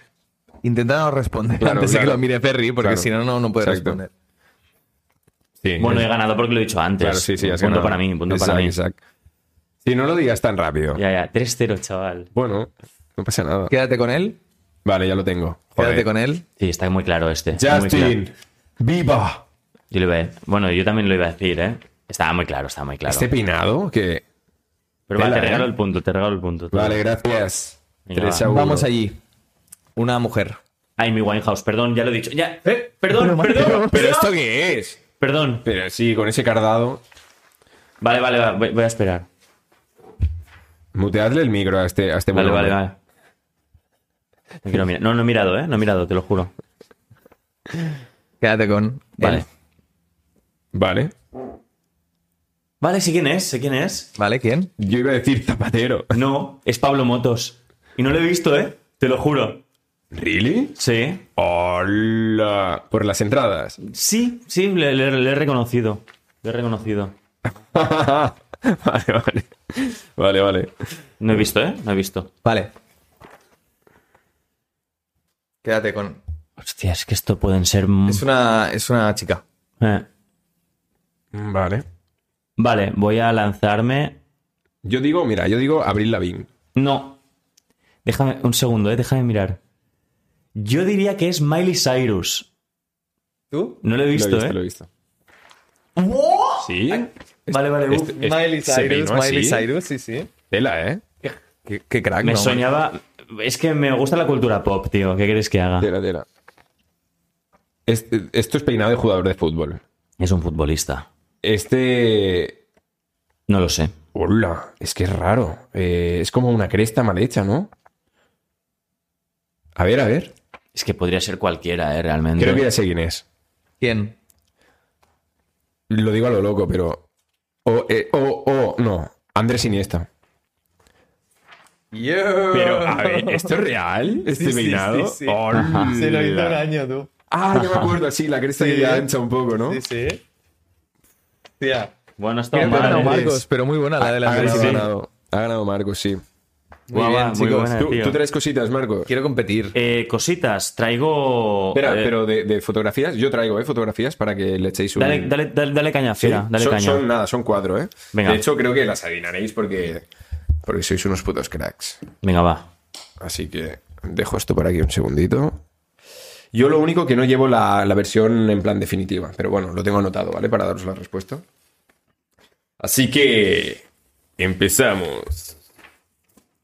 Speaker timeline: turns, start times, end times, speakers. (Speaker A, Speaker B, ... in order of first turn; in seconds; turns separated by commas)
Speaker A: 0.6-4.1, Speaker B: 1.6-2.2, Speaker B: 2.8-3.1, Speaker B: 3.6-4.0, Speaker B: 5.6-6.1, Speaker C: 5.8-8.8, Speaker B: 7.0-9.0, Speaker B: 9.8-11.0, Speaker C: 10.9-12.3, Speaker B: 12.3-13.7, Speaker A: 13.7-14.4, Speaker B: 14.8-16.1, Speaker A: 15.8-16.4, Speaker C: 16.6-18.2, Speaker B: 17.5-19.5, Speaker C: 19.9-23.3, Speaker B: 23.1-24.2, Speaker C: 25.1-27.0, Speaker B: 25.2-25.7, Speaker B: 26.7-28.9, Speaker C: 28.1-28.5, Speaker A: 28.4-29.2, Speaker A: 30.0-30.6, Speaker C: 31.0-34.3, Speaker A: 32.7-34.1, Speaker B: 33.5-35.0, Speaker C: 35.2-35.7, Speaker B: 35.6-37.0, Speaker C: 38.0-39.3, Speaker B: 40.9-42.8, Speaker C: 42.3-43.0, Speaker C: 44.6-46.5, Speaker A: 48.4-49.5, Speaker C: 49.2-49.5, Speaker B: 50.7-51.1, Speaker C: 52.8-54.1, Speaker A: 54.2-54.7, Speaker B: 54.8-56.2, Speaker C: 56.1-59.6, Speaker B: 60.1-60.8, Speaker C: 60.8-61.3, Speaker B: 61.4-63.8, Speaker C: 63.8-67.2, Speaker B: 67.5-70.7, Speaker C: 71.2-72.3, Speaker A: 72.4-72.7, Speaker A: 75.6-76.2, Speaker C: 76.6-78.2, Speaker A: 78.1-79.4, Speaker C: 79.8-80.1, Speaker B: 81.3-81.8, Speaker C: 82.6-84.2, Speaker B: 84.8-86.5, Speaker C: 86.8-87.2, Speaker C: 88.0-89.6, Speaker C: 90.5-92.5, Speaker A: 93.5-93.8, Speaker C: 93.8-94.6, Speaker B: 94.1-94.9, Speaker A: 96.0-97.0, Speaker B: 96.6-99.7, Speaker C: 97.5-98.2, Speaker A: 98.0-100.3, Speaker B: 100.5-101.1, Speaker A: 101.7-102.6, Speaker C: 102.2-105.9, Speaker B: 105.8-106.3, Speaker B: 107.9-109.8, Speaker C: 110.2-111.1, Speaker B: 111.4-112.6, Speaker C: 113.5-113.9, Speaker B: 114.1-117.7, Speaker B: 119.8-120.3, Speaker C: 120.7-122.7, Speaker B: 122.4-123.2, Speaker A: 123.8-124.2, Speaker B: 125.9-127.1, Speaker B: 127.7-130.1, Speaker A: 131.9-133.6, Speaker B: 132.5-136.7, Speaker A: 134.2-137.1, Speaker C: 135.5-135.9, Speaker B: 137.3-139.8, Speaker C: 137.6-137.9, Speaker A: 138.6-140.2, Speaker A: 141.6-141.9, Speaker C: 142.2-143.4, Speaker A: 142.5-144.9, Speaker B: 142.6-143.4, Speaker B: 144.0-146.2, Speaker C: 144.3-144.9, Speaker A: 146.9-147.8, Speaker C: 146.9-148.2, Speaker B: 147.7-149.1, Speaker A: 149.1-149.8, Speaker C: 149.7-152.1, Speaker B: 151.7-155.3, Speaker C: 155.0-157.1, Speaker B: 156.2-160.1, Speaker C: 158.1-158.4, Speaker B: 160.7-162.1, Speaker C: 162.2-162.7, Speaker B: 163.2-165.6, Speaker B: 166.5-171.4, Speaker B: 172.8-173.8, Speaker B: 174.4-175.6